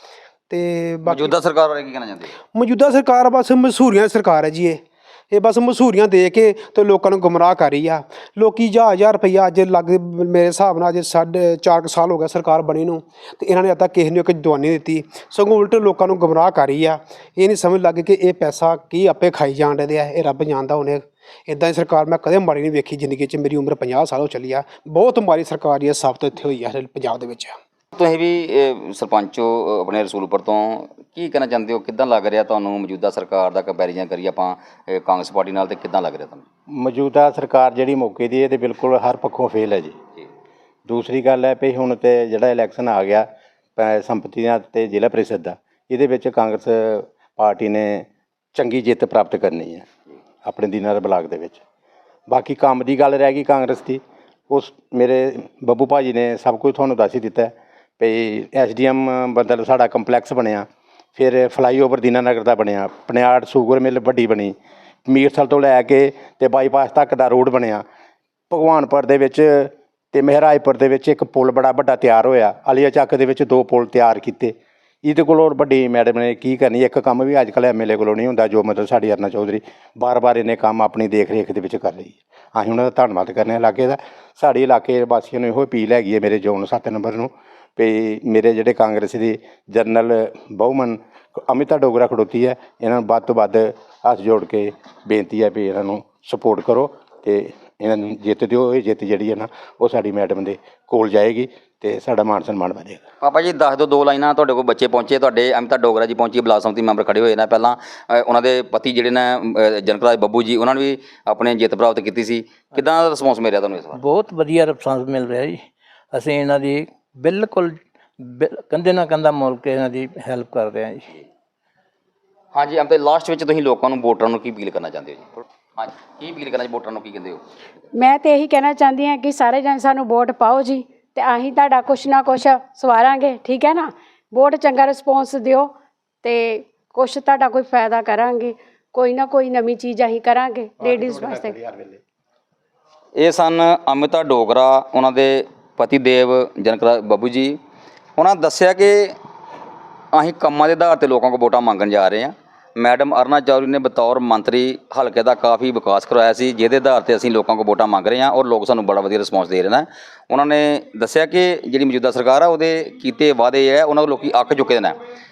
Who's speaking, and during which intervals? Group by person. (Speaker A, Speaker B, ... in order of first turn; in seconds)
Speaker A: 0.5-1.3, 2.5-27.6
Speaker B: 1.1-2.3, 27.9-36.4, 103.2-114.0, 122.5-125.2, 125.8-127.4, 143.2-147.6, 148.2-149.2, 150.1-165.0
Speaker C: 36.7-40.0, 40.9-49.9, 50.4-51.6, 52.3-64.5, 65.1-67.8, 68.5-103.0, 140.8-142.0
Speaker D: 113.9-121.1
Speaker E: 127.9-135.7, 136.2-141.6